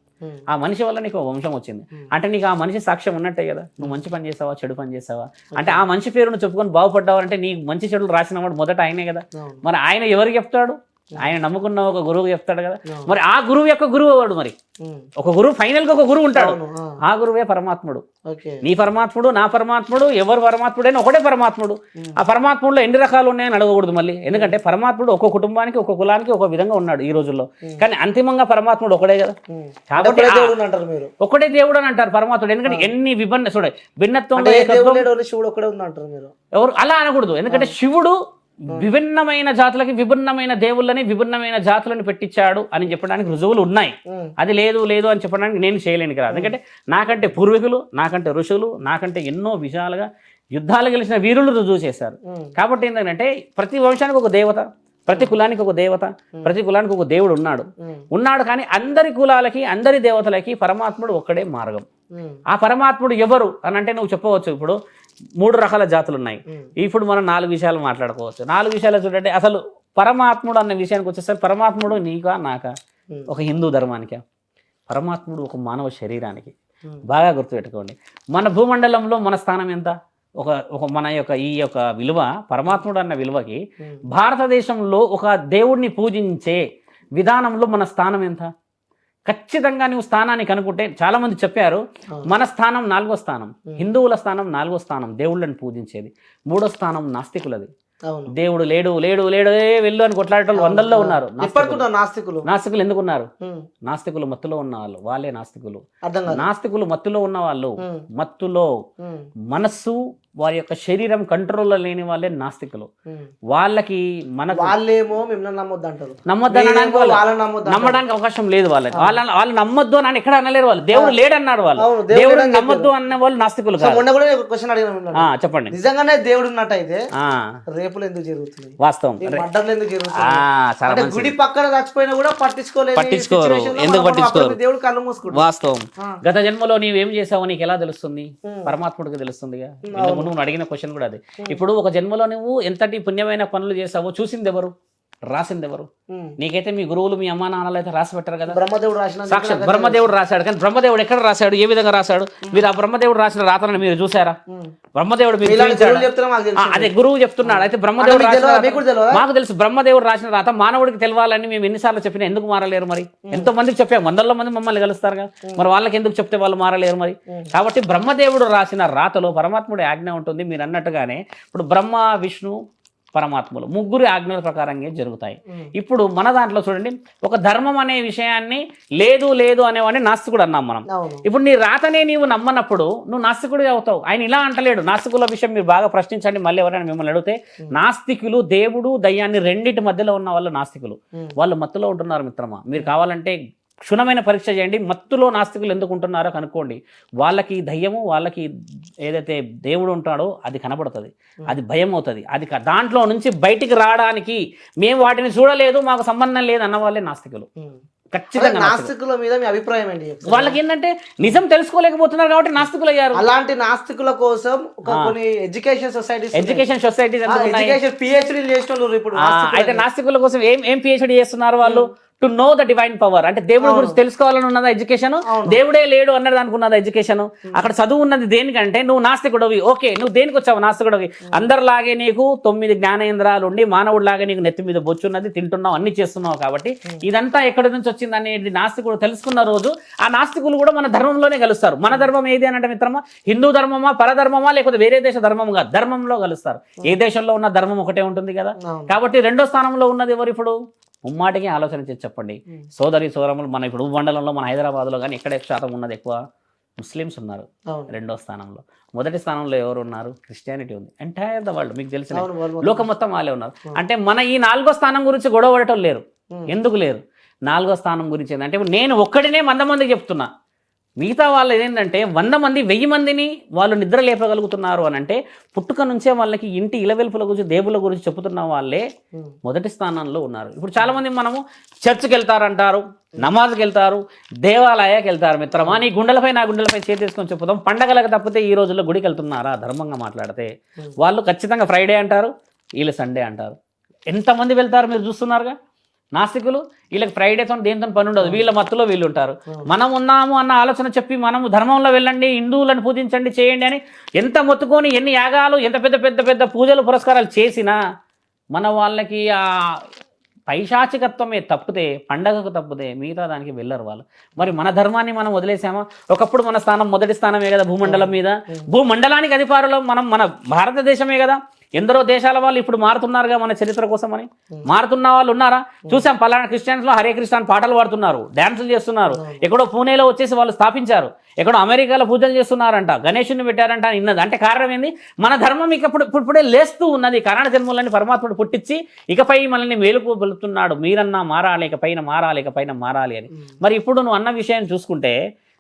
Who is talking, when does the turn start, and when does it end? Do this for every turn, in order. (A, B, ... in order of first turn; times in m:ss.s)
0:00.5-0:14.6 A
0:05.6-0:05.8 B
0:09.4-0:09.6 B
0:15.2-0:18.0 A
0:16.4-0:17.0 B
0:18.3-0:18.6 B
0:18.6-0:29.4 A
0:29.5-0:31.1 B
0:29.9-0:30.6 A
0:31.2-0:35.1 A
0:34.4-0:36.3 B
0:36.5-0:38.2 A
0:38.7-1:01.8 A
0:52.3-0:52.5 B
1:02.2-1:02.4 B
1:02.5-1:04.8 A
1:05.4-1:12.7 A
1:13.3-1:14.2 A
1:14.9-1:16.5 A
1:17.1-1:23.6 A
1:24.1-1:26.6 A
1:27.2-1:28.5 A
1:29.3-1:37.7 A
1:38.3-1:41.8 A
1:40.6-1:42.4 B
1:42.5-1:43.3 A
1:43.8-1:48.7 A
1:46.0-1:46.5 B
1:49.5-1:52.9 A
1:53.5-1:54.7 A
1:54.5-1:58.0 B
1:56.3-2:04.0 A
2:01.8-2:02.9 B
2:03.8-2:07.0 B
2:05.2-2:05.7 A
2:07.2-2:07.5 A
2:07.7-2:15.4 B
2:08.8-2:09.4 A
2:10.2-2:11.3 A
2:13.0-2:14.6 A
2:15.3-2:24.7 A
2:18.5-2:18.7 B
2:19.9-2:20.3 B
2:25.3-2:28.6 A
2:28.5-2:30.1 B
2:29.3-2:34.4 A
2:35.0-2:36.1 A
2:35.4-2:36.9 B
2:36.6-2:52.6 A
2:37.4-2:39.2 B
2:53.1-3:18.5 A
3:00.9-3:01.2 B
3:19.0-3:27.5 A
3:28.1-3:28.9 A
3:28.3-3:30.6 B
3:30.3-3:33.2 A
3:33.2-3:36.6 B
3:36.4-3:37.8 A
3:37.3-3:39.8 B
3:39.2-4:16.2 A
3:43.6-3:44.0 B
3:45.3-3:45.6 B
4:08.6-4:08.9 B
4:16.8-4:30.3 A
4:22.1-4:22.9 B
4:31.0-4:38.8 A
4:39.4-4:53.6 A
4:45.6-4:45.8 B
4:54.1-4:55.5 A
4:56.2-5:07.8 A
5:08.5-5:09.8 A
5:10.5-5:45.2 A
5:17.8-5:18.6 B
5:29.1-5:29.4 B